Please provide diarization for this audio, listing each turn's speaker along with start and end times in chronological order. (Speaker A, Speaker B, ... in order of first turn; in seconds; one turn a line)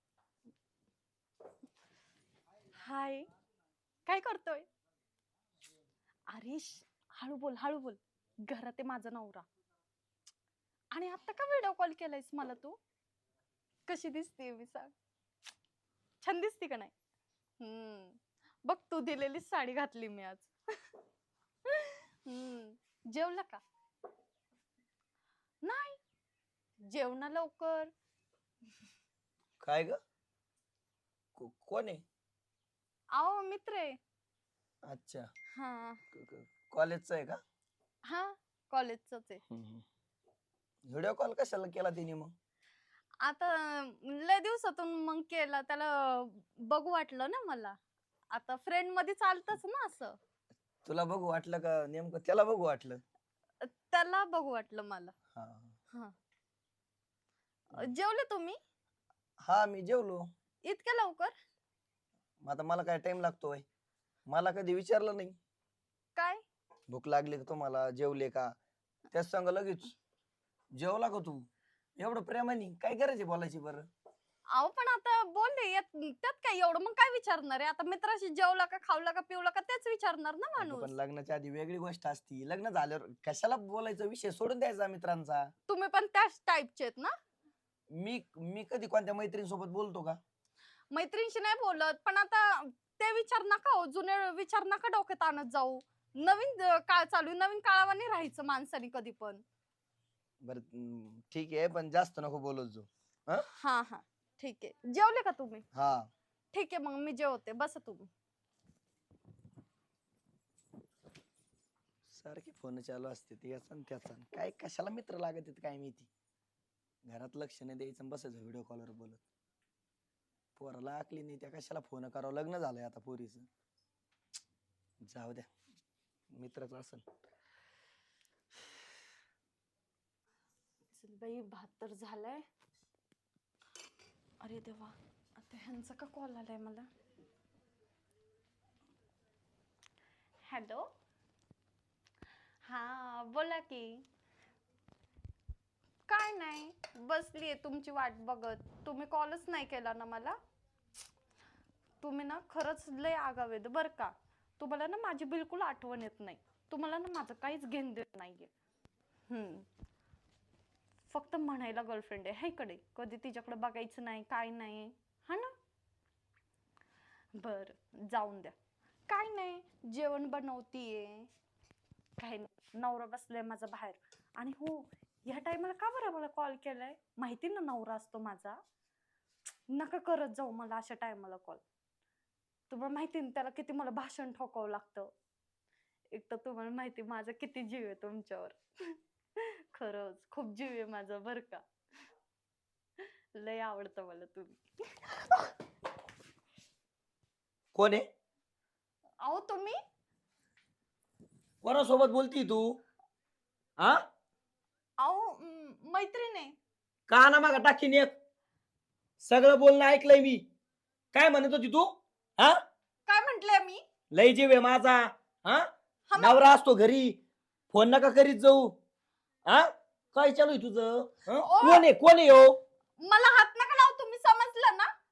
Speaker A: 2.8-3.3
Speaker A: 4.1-4.7
Speaker A: 6.3-9.4
Speaker A: 10.9-12.8
Speaker A: 13.9-14.9
Speaker A: 16.2-16.9
Speaker A: 17.6-20.5
Speaker A: 21.9-23.6
Speaker A: 25.6-26.0
Speaker A: 26.9-27.9
Speaker B: 29.6-30.0
Speaker B: 31.4-32.0
Speaker A: 33.1-34.0
Speaker B: 34.9-35.3
Speaker A: 35.5-36.0
Speaker B: 36.1-37.4
Speaker A: 38.0-39.4
Speaker B: 39.5-39.8
Speaker B: 40.9-42.3
Speaker A: 43.2-47.8
Speaker A: 48.3-50.2
Speaker B: 50.9-53.0
Speaker A: 53.6-55.1
Speaker B: 55.4-55.7
Speaker A: 57.7-58.6
Speaker B: 59.4-60.3
Speaker A: 60.6-61.3
Speaker B: 62.4-63.6
Speaker B: 64.3-65.4
Speaker A: 66.2-66.4
Speaker B: 66.9-68.5
Speaker B: 69.1-69.9
Speaker B: 70.8-73.9
Speaker A: 74.5-80.9
Speaker B: 80.6-85.5
Speaker A: 85.7-87.1
Speaker B: 88.0-90.2
Speaker A: 90.9-99.4
Speaker B: 100.5-103.5
Speaker A: 103.6-105.7
Speaker B: 105.7-106.1
Speaker A: 106.5-108.1
Speaker B: 112.1-116.1
Speaker B: 117.1-119.2
Speaker B: 120.6-123.5
Speaker B: 125.0-125.5
Speaker B: 126.3-127.0
Speaker A: 130.9-132.4
Speaker A: 134.4-136.9
Speaker A: 140.5-140.9
Speaker A: 142.7-144.0
Speaker A: 146.1-150.4
Speaker A: 152.0-158.5
Speaker A: 159.3-159.7
Speaker A: 161.1-165.5
Speaker A: 167.4-168.5
Speaker A: 169.1-171.3
Speaker A: 172.2-178.6
Speaker A: 179.7-181.6
Speaker A: 182.7-185.1
Speaker A: 186.1-188.6
Speaker A: 189.7-191.6
Speaker A: 193.4-195.4
Speaker B: 197.7-198.1
Speaker A: 199.2-199.8
Speaker B: 201.6-202.8
Speaker A: 205.0-206.5
Speaker B: 207.1-208.1
Speaker B: 209.2-210.5
Speaker B: 211.1-212.6
Speaker A: 213.1-213.8
Speaker B: 214.1-215.7
Speaker A: 216.1-216.5
Speaker B: 216.2-217.2
Speaker B: 217.7-218.8
Speaker B: 219.5-222.6
Speaker A: 221.4-221.9
Speaker A: 223.0-224.9